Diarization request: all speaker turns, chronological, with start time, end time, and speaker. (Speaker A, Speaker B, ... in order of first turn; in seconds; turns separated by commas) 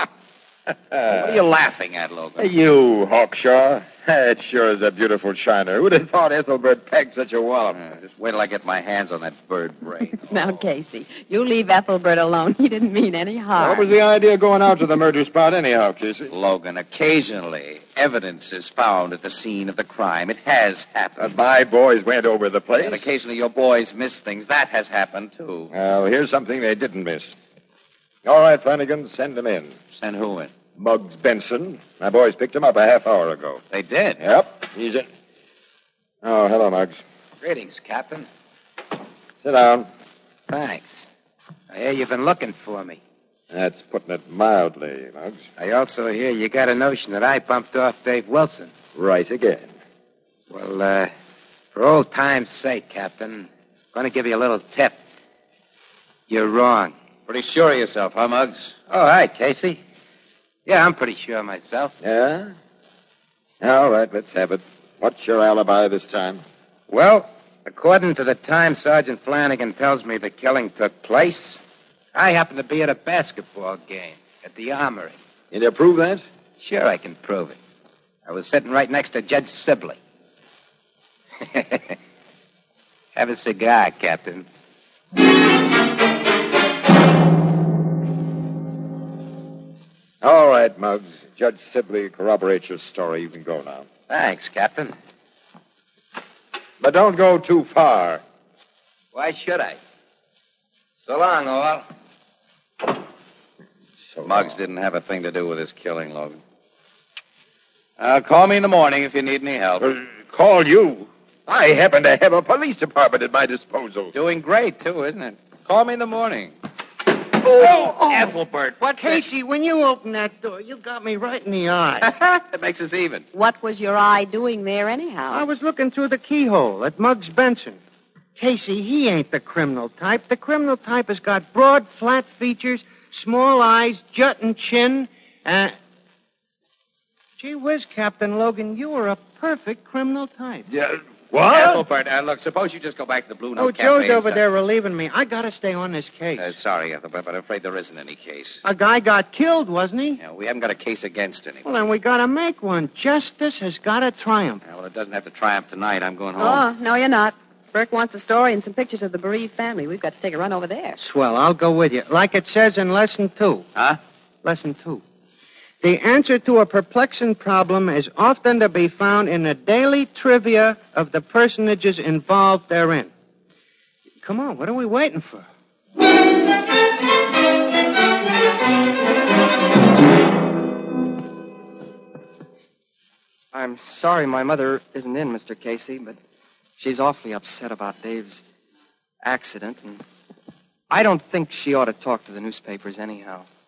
Speaker A: 0.9-1.4, Speaker B: 1.1-2.5, Speaker A: 2.4-7.8, Speaker B: 7.7-10.6, Speaker C: 10.3-13.9, Speaker A: 13.6-16.3, Speaker B: 16.3-21.3, Speaker A: 21.2-23.1, Speaker B: 22.8-25.7, Speaker A: 25.7-27.4, Speaker A: 28.2-29.7, Speaker B: 29.9-30.5, Speaker A: 30.7-33.6, Speaker B: 33.7-34.2, Speaker A: 34.2-35.1, Speaker A: 36.2-37.0, Speaker D: 37.4-38.3, Speaker A: 39.4-39.9, Speaker D: 40.5-41.0, Speaker D: 41.7-43.0, Speaker A: 43.5-45.5, Speaker D: 45.6-48.7, Speaker A: 48.9-49.7, Speaker D: 50.5-51.1, Speaker D: 51.7-55.0, Speaker D: 56.3-56.9, Speaker B: 57.3-58.8, Speaker D: 58.9-59.8, Speaker D: 60.6-61.9, Speaker A: 62.0-62.5, Speaker A: 63.6-66.4, Speaker D: 66.9-71.6, Speaker D: 72.1-75.2, Speaker A: 75.5-76.2, Speaker D: 76.6-77.6, Speaker D: 78.2-80.0, Speaker D: 81.5-82.0, Speaker D: 83.1-84.5, Speaker A: 90.2-93.9, Speaker D: 94.1-94.9, Speaker A: 96.8-98.2, Speaker D: 99.1-99.8, Speaker D: 101.0-101.9, Speaker A: 104.0-104.5, Speaker B: 104.2-106.4, Speaker B: 108.0-109.9, Speaker A: 109.8-114.1, Speaker B: 114.1-116.5, Speaker B: 117.4-119.2, Speaker E: 117.6-118.3, Speaker E: 119.0-122.1, Speaker B: 122.0-123.2, Speaker C: 123.3-125.5, Speaker E: 125.3-127.8, Speaker E: 128.4-135.8, Speaker E: 137.4-140.7, Speaker B: 141.3-144.4, Speaker A: 141.4-141.7, Speaker E: 143.6-146.5, Speaker B: 146.4-148.6, Speaker E: 148.6-150.2, Speaker B: 150.2-151.7, Speaker E: 151.6-154.6, Speaker B: 154.6-156.6, Speaker C: 156.4-161.0, Speaker E: 161.0-163.7, Speaker E: 164.4-165.0, Speaker E: 165.8-173.1, Speaker E: 174.2-175.5, Speaker F: 183.5-186.2, Speaker F: 186.8-188.4, Speaker F: 189.2-190.0, Speaker F: 190.9-193.5